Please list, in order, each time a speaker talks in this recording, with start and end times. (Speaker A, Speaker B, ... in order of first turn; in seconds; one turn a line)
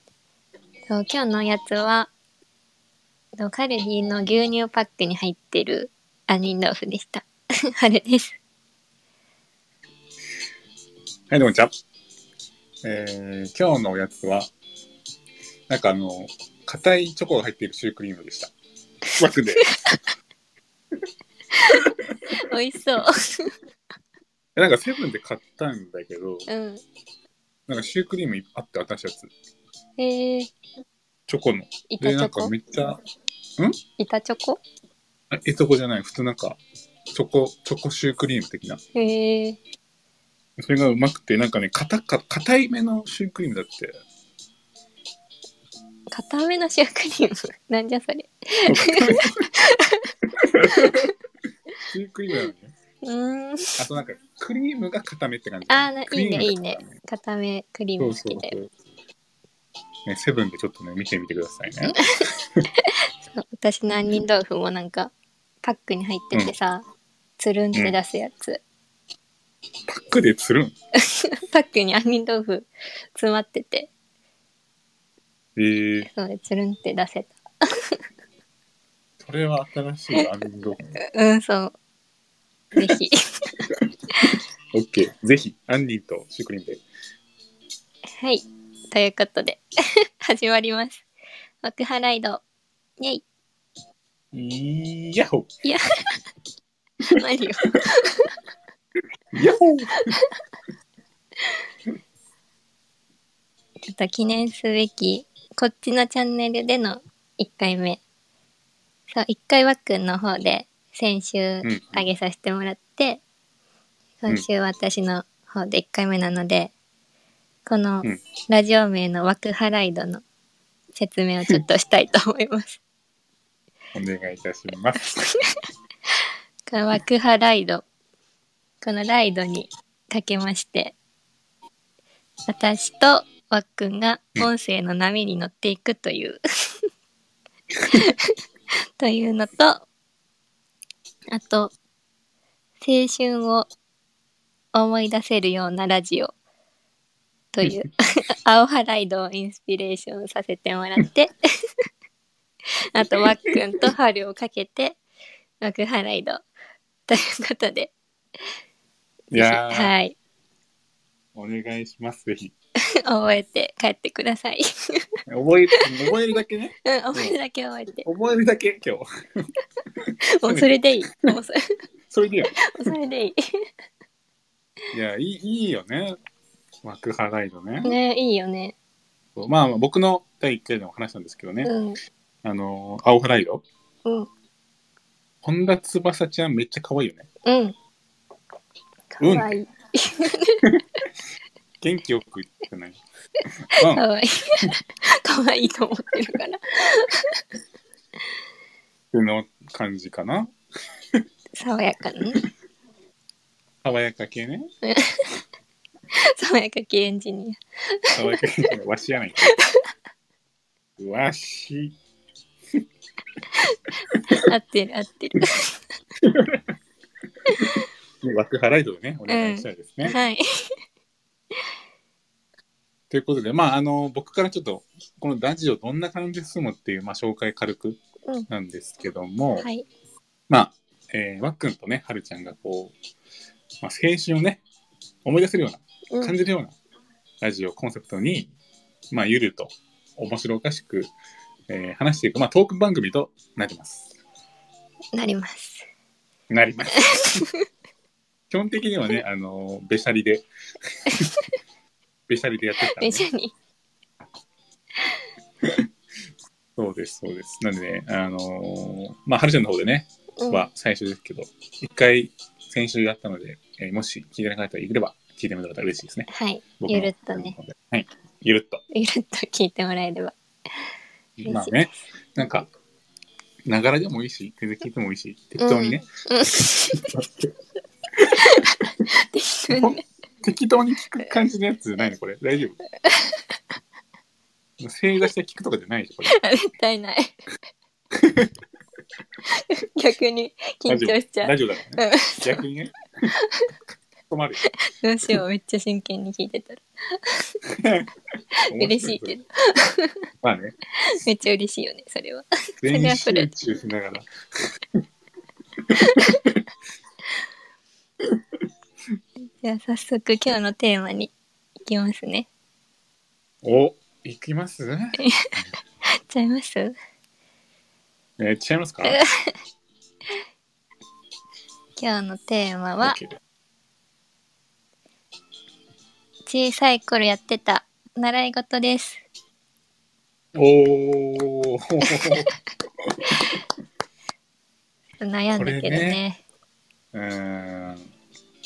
Speaker A: 0.9-2.1
Speaker A: 3.4-7.2
Speaker A: 7.8-8.4
Speaker B: 11.3-11.7
Speaker B: 12.8-14.5
Speaker B: 15.7-18.5
Speaker B: 19.2-19.8
Speaker A: 19.6-20.0
Speaker A: 21.6-23.5
Speaker B: 24.6-26.5
Speaker A: 26.5-26.8
Speaker B: 27.7-29.3
Speaker A: 30.0-30.5
Speaker B: 31.3-33.0
Speaker A: 31.9-32.5
Speaker A: 34.0-34.6
Speaker B: 35.3-36.6
Speaker B: 37.1-38.8
Speaker A: 38.9-39.6
Speaker B: 40.6-44.0
Speaker A: 46.1-50.1
Speaker B: 48.7-49.4
Speaker B: 50.4-51.1
Speaker A: 50.7-51.1
Speaker B: 51.9-52.7
Speaker A: 53.0-53.8
Speaker B: 53.8-56.9
Speaker A: 55.7-58.5
Speaker B: 58.0-58.7
Speaker B: 60.0-62.0
Speaker A: 61.9-66.8
Speaker A: 67.4-68.6
Speaker B: 69.9-70.7
Speaker A: 71.0-73.9
Speaker B: 75.5-76.1
Speaker A: 76.0-77.9
Speaker B: 79.2-81.0
Speaker A: 81.0-81.7
Speaker A: 82.7-83.7
Speaker B: 84.7-86.8
Speaker A: 88.2-91.0
Speaker A: 91.6-92.4
Speaker B: 94.3-95.5
Speaker A: 95.6-96.2
Speaker A: 97.1-98.3
Speaker B: 99.3-100.2
Speaker A: 100.0-100.3
Speaker A: 103.9-108.0
Speaker A: 109.1-113.2
Speaker B: 111.6-112.0
Speaker A: 114.2-116.7
Speaker A: 117.7-120.2
Speaker A: 120.9-122.8
Speaker B: 123.9-125.3
Speaker A: 125.0-125.4
Speaker A: 126.7-127.8
Speaker A: 128.8-130.9
Speaker A: 132.5-136.4
Speaker A: 137.8-138.3
Speaker A: 139.0-139.9
Speaker A: 141.3-141.7
Speaker A: 142.8-143.7
Speaker A: 144.7-146.3
Speaker A: 147.5-151.3
Speaker A: 152.9-155.0
Speaker A: 155.6-156.4
Speaker A: 157.1-157.9
Speaker B: 159.3-159.9
Speaker A: 159.3-160.2
Speaker B: 161.3-162.5
Speaker A: 163.0-165.1
Speaker B: 165.3-167.4
Speaker A: 166.8-168.1
Speaker B: 168.0-169.5
Speaker B: 170.0-170.7
Speaker A: 170.3-171.6
Speaker B: 172.1-172.9
Speaker A: 172.6-173.4
Speaker B: 174.9-176.2
Speaker B: 176.8-177.9
Speaker A: 177.8-178.7
Speaker B: 179.3-181.7
Speaker A: 181.6-182.0
Speaker B: 182.4-183.6
Speaker B: 185.4-187.3
Speaker A: 187.4-187.7
Speaker A: 189.1-190.7
Speaker B: 189.2-189.5
Speaker B: 191.8-193.0
Speaker B: 193.6-194.0
Speaker A: 193.8-197.4
Speaker B: 199.1-200.5
Speaker A: 201.5-202.4
Speaker B: 203.8-204.7
Speaker A: 204.8-205.2
Speaker A: 206.1-208.4
Speaker B: 208.1-209.5
Speaker A: 209.4-209.9
Speaker B: 211.0-211.9
Speaker A: 214.3-215.8
Speaker B: 216.2-216.7
Speaker A: 217.5-217.8
Speaker B: 217.5-220.2
Speaker A: 219.3-220.4
Speaker B: 223.1-229.7
Speaker A: 229.6-229.8
Speaker B: 230.5-232.9
Speaker B: 233.8-234.6
Speaker B: 235.2-236.7
Speaker A: 236.1-236.3
Speaker B: 237.4-238.5
Speaker B: 239.1-241.1
Speaker B: 241.7-244.1
Speaker A: 245.1-245.8
Speaker B: 246.5-247.4
Speaker A: 247.0-247.5
Speaker B: 248.5-250.4
Speaker B: 251.0-251.3
Speaker B: 252.3-253.3
Speaker A: 252.9-253.5
Speaker B: 256.8-266.3
Speaker A: 260.4-260.7
Speaker A: 266.3-267.6
Speaker B: 266.8-268.8
Speaker A: 268.9-270.3
Speaker B: 271.4-272.7
Speaker A: 271.4-271.9
Speaker B: 273.6-276.0
Speaker A: 275.6-277.1
Speaker B: 276.9-277.5
Speaker B: 278.2-278.6
Speaker A: 278.3-280.0
Speaker B: 279.7-282.8
Speaker A: 283.0-283.4
Speaker B: 284.8-286.4
Speaker A: 286.2-287.4
Speaker B: 288.1-288.5
Speaker A: 289.4-292.6
Speaker B: 290.9-293.0
Speaker A: 293.4-293.7
Speaker B: 294.3-294.6
Speaker A: 294.9-297.6
Speaker B: 297.6-298.1
Speaker A: 298.7-300.2
Speaker B: 298.7-299.4
Speaker B: 300.4-300.7
Speaker A: 301.0-303.5
Speaker B: 302.8-304.7
Speaker B: 305.9-306.6
Speaker A: 305.9-306.4
Speaker A: 309.6-311.3
Speaker A: 311.8-312.5
Speaker B: 313.6-315.2
Speaker A: 315.2-315.5
Speaker A: 316.1-316.9
Speaker B: 318.4-319.2
Speaker A: 319.0-319.5
Speaker A: 322.0-323.2
Speaker B: 323.0-323.4
Speaker A: 326.4-329.2
Speaker B: 330.5-332.5
Speaker A: 332.0-332.4
Speaker B: 333.0-333.5
Speaker A: 335.2-336.4
Speaker B: 335.5-336.2
Speaker B: 337.1-338.1